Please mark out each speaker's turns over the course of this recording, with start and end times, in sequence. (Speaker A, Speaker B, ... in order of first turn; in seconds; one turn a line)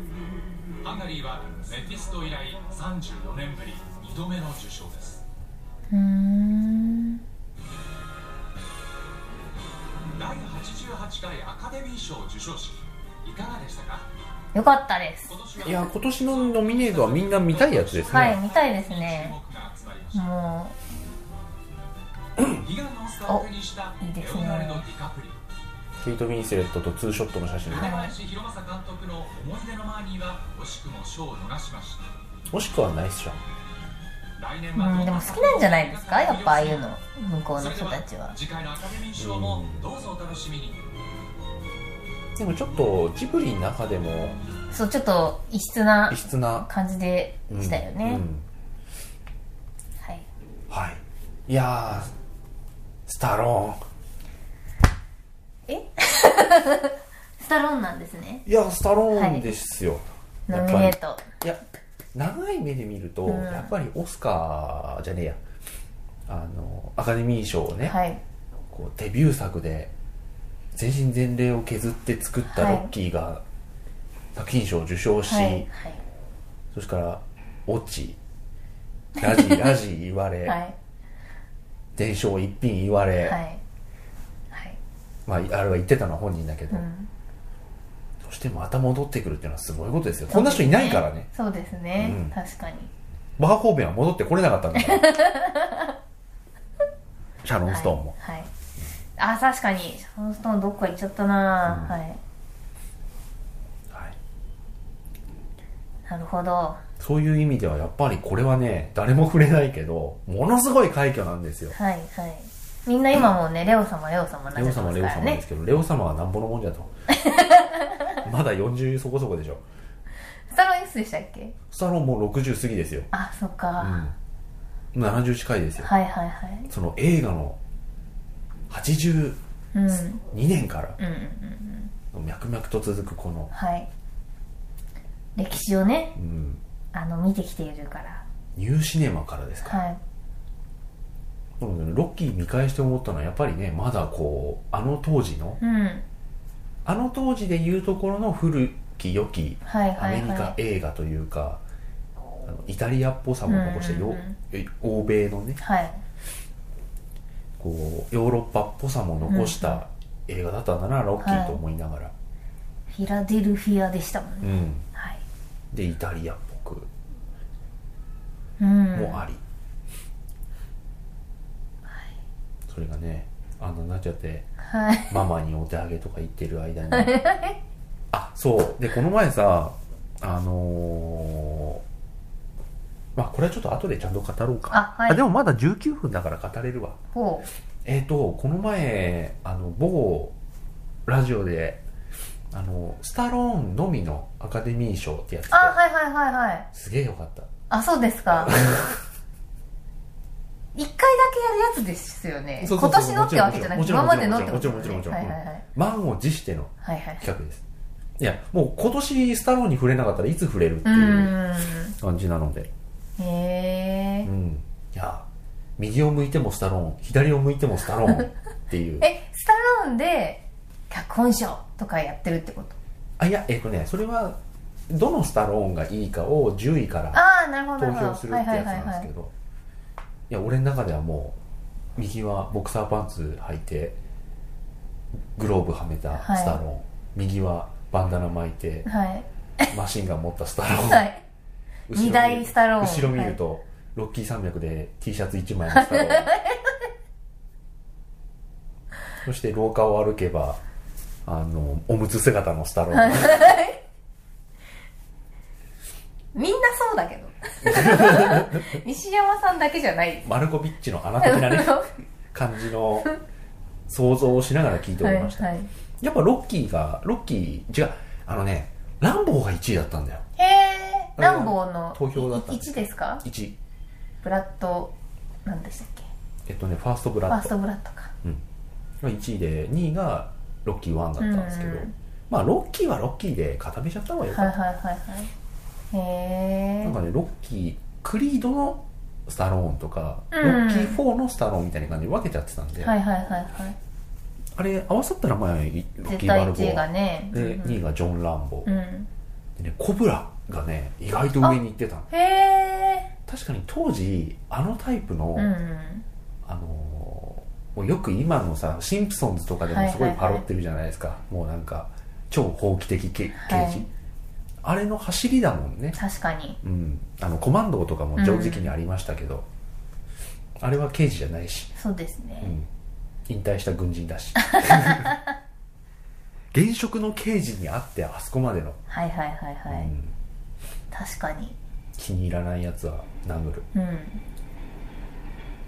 Speaker A: 0.8-5.2
Speaker B: 5.9-7.2
Speaker A: 10.2-14.1
Speaker B: 14.5-15.3
Speaker A: 15.3-20.3
Speaker C: 15.6-18.4
Speaker B: 18.1-19.3
Speaker B: 20.1-20.7
Speaker C: 22.4-22.6
Speaker A: 22.6-25.4
Speaker B: 24.0-24.8
Speaker C: 26.0-28.0
Speaker A: 27.7-32.1
Speaker B: 27.7-28.1
Speaker C: 32.5-33.4
Speaker A: 34.4-36.9
Speaker B: 34.7-38.3
Speaker A: 37.5-40.8
Speaker C: 39.1-39.9
Speaker C: 42.4-44.4
Speaker B: 44.7-48.2
Speaker C: 46.1-46.7
Speaker C: 47.5-48.4
Speaker B: 50.0-50.3
Speaker C: 50.7-52.1
Speaker C: 53.1-53.8
Speaker B: 55.7-58.4
Speaker C: 58.5-61.6
Speaker B: 59.1-59.5
Speaker B: 60.5-61.3
Speaker C: 62.1-65.4
Speaker B: 63.2-63.7
Speaker C: 66.3-67.9
Speaker B: 67.8-68.2
Speaker C: 68.7-69.9
Speaker C: 70.7-73.4
Speaker B: 72.5-72.9
Speaker C: 74.3-75.7
Speaker B: 75.3-76.0
Speaker C: 76.7-78.2
Speaker C: 79.2-80.6
Speaker B: 79.2-79.7
Speaker B: 80.5-80.7
Speaker C: 81.9-83.4
Speaker B: 83.2-83.6
Speaker B: 84.5-84.8
Speaker C: 85.2-86.8
Speaker B: 86.7-87.1
Speaker C: 88.2-91.3
Speaker B: 90.3-92.9
Speaker C: 92.0-92.3
Speaker C: 93.4-95.1
Speaker B: 94.8-95.9
Speaker C: 97.4-98.1
Speaker B: 97.7-98.5
Speaker B: 99.2-102.2
Speaker C: 101.6-101.9
Speaker C: 103.9-104.2
Speaker B: 106.1-106.8
Speaker C: 107.0-111.7
Speaker B: 111.7-115.4
Speaker C: 114.5-116.9
Speaker B: 117.1-118.2
Speaker C: 118.2-119.6
Speaker B: 120.5-121.5
Speaker C: 121.7-123.1
Speaker B: 123.1-124.0
Speaker C: 123.8-124.1
Speaker C: 124.9-125.9
Speaker B: 125.8-126.7
Speaker C: 126.7-127.6
Speaker C: 128.7-129.4
Speaker B: 129.7-130.2
Speaker C: 130.2-131.0
Speaker B: 131.0-131.9
Speaker C: 132.1-133.5
Speaker B: 133.5-133.9
Speaker B: 135.3-136.2
Speaker C: 136.2-136.6
Speaker B: 136.9-138.2
Speaker C: 138.5-139.8
Speaker B: 139.6-140.0
Speaker C: 141.6-145.6
Speaker B: 145.6-146.0
Speaker C: 146.8-151.6
Speaker B: 149.6-150.5
Speaker C: 152.4-155.6
Speaker B: 153.5-154.3
Speaker B: 155.6-156.0
Speaker C: 157.6-162.1
Speaker B: 159.2-159.8
Speaker B: 161.2-161.6
Speaker B: 162.9-165.2
Speaker C: 164.4-164.8
Speaker C: 165.7-166.9
Speaker B: 168.6-169.2
Speaker C: 168.9-169.4
Speaker B: 171.9-172.2
Speaker C: 172.7-174.5
Speaker B: 174.6-175.2
Speaker C: 175.1-177.2
Speaker B: 176.9-177.6
Speaker C: 178.1-181.8
Speaker C: 183.1-187.0
Speaker B: 184.7-185.2
Speaker B: 187.1-187.5
Speaker C: 187.8-190.3
Speaker C: 191.1-191.8
Speaker C: 192.5-195.8
Speaker B: 195.5-196.7
Speaker C: 196.7-197.5
Speaker B: 197.7-198.5
Speaker C: 198.3-199.0
Speaker B: 200.7-205.6
Speaker C: 202.6-207.6
Speaker B: 206.8-207.2
Speaker C: 208.2-211.4
Speaker B: 210.8-211.9
Speaker C: 212.0-212.7
Speaker B: 213.2-214.3
Speaker C: 214.2-215.3
Speaker C: 215.8-219.1
Speaker B: 219.0-222.8
Speaker C: 223.2-227.2
Speaker B: 227.1-229.1
Speaker C: 227.8-229.3
Speaker C: 230.3-231.4
Speaker C: 231.9-234.0
Speaker C: 235.3-238.8
Speaker B: 236.2-236.6
Speaker B: 238.8-239.7
Speaker C: 239.7-241.1
Speaker B: 240.7-241.2
Speaker C: 241.9-246.3
Speaker B: 241.9-243.4
Speaker B: 245.7-246.6
Speaker C: 249.2-250.6
Speaker C: 251.2-253.6
Speaker B: 252.9-253.8
Speaker B: 256.3-260.3
Speaker C: 257.6-258.8
Speaker C: 260.2-263.1
Speaker B: 261.2-261.9
Speaker C: 263.9-265.4
Speaker B: 265.0-265.7
Speaker C: 266.0-270.2
Speaker B: 270.4-273.2
Speaker C: 271.1-273.6
Speaker B: 274.2-274.9
Speaker B: 275.4-276.1
Speaker C: 276.4-277.5
Speaker B: 277.3-278.1
Speaker C: 279.0-284.5
Speaker B: 281.2-281.9
Speaker B: 284.3-285.3
Speaker B: 285.9-287.0
Speaker C: 286.8-292.9
Speaker B: 290.3-291.0
Speaker B: 292.8-293.8
Speaker C: 294.5-298.7
Speaker B: 296.1-297.8
Speaker B: 298.6-299.1
Speaker C: 299.6-302.1
Speaker B: 301.4-303.1
Speaker C: 303.3-305.5
Speaker B: 305.4-306.0
Speaker C: 306.4-313.9
Speaker B: 309.7-310.4
Speaker B: 313.3-313.9
Speaker C: 314.6-316.0
Speaker B: 315.9-316.6
Speaker C: 316.6-319.5
Speaker B: 318.2-318.7
Speaker C: 320.6-321.7
Speaker B: 321.8-322.5
Speaker C: 322.4-322.7
Speaker C: 323.3-325.1
Speaker B: 324.6-325.0
Speaker C: 326.5-328.8
Speaker B: 328.9-329.9
Speaker C: 329.7-330.1
Speaker B: 330.9-331.6
Speaker C: 331.9-333.7
Speaker B: 333.7-334.2